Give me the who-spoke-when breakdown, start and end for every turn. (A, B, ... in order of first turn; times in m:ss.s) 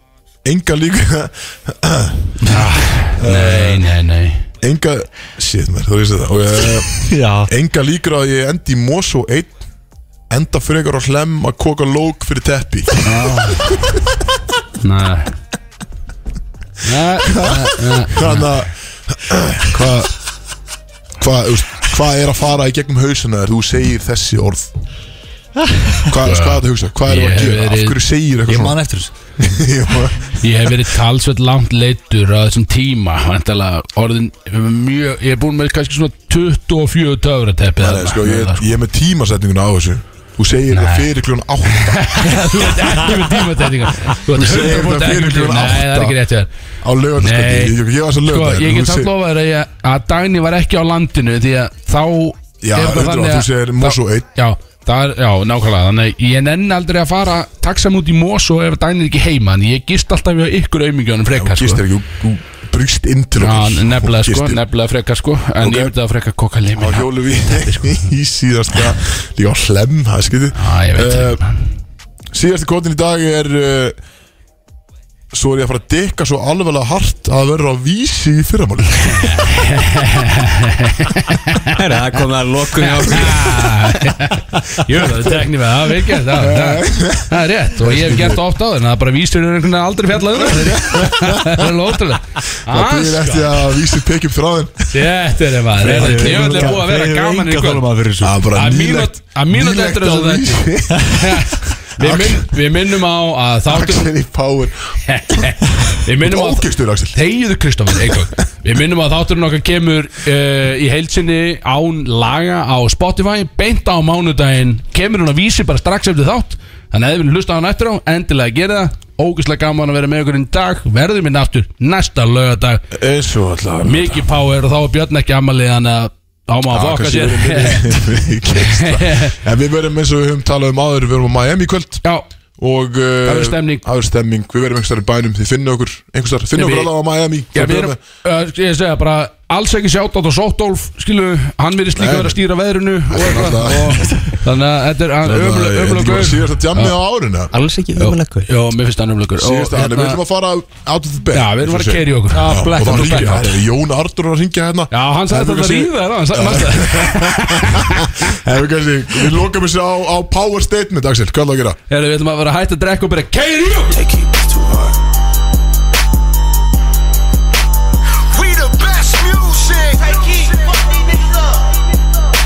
0:00.4-0:02.3 A
0:02.5-0:04.4 B
0:03.2-0:03.9 A
0:04.6-0:09.6 A
0:07.1-0:07.5 C
0:10.3-0:13.9 A
0:13.0-0:13.6 B
0:14.8-0:15.3 B
0:16.8-0:18.6 B
0:17.2-0:20.1 A
0:21.2-0:24.7 A
0:26.1-0:28.8 A
0:26.2-0:28.0 B
0:28.5-0:29.1 C
0:29.4-0:30.4 A
0:30.4-0:38.7 B
0:37.8-0:43.4 A
0:40.7-0:41.1 B
0:41.7-0:46.5 B
0:44.1-0:46.2 A
0:46.8-0:49.1 A
0:47.2-1:01.8 B
0:52.6-0:54.3 A
1:01.3-1:04.6 A
1:03.4-1:07.8 B
1:05.6-1:05.9 A
1:06.8-1:11.4 A
1:10.6-1:11.6 B
1:12.3-1:14.0 A
1:15.3-1:19.4 A
1:19.1-1:21.8 B
1:21.8-1:24.1 D
1:22.8-1:33.8 B
1:26.2-1:28.4 A
1:30.3-1:31.7 A
1:32.7-1:35.0 A
1:34.9-1:37.8 B
1:35.8-1:38.4 C
1:35.8-1:36.8 A
1:38.2-1:42.6 A
1:38.5-1:44.1 B
1:43.7-1:47.2 A
1:45.1-2:02.8 B
2:02.9-2:04.3 A
2:03.8-2:08.0 B
2:06.7-2:12.0 A
2:08.5-2:09.3 B
2:12.6-2:18.0 A
2:13.2-2:13.8 B
2:16.6-2:16.9 B
2:17.5-2:26.9 B
2:22.0-2:22.4 A
2:23.1-2:24.2 A
2:25.2-2:27.5 A
2:27.5-2:28.5 D
2:28.0-2:30.2 B
2:29.4-2:41.8 A
2:31.3-2:33.6 B
2:32.4-2:33.3 C
2:34.9-2:38.3 B
2:41.9-2:44.0 B
2:44.0-2:44.9 E
2:48.3-2:51.7 E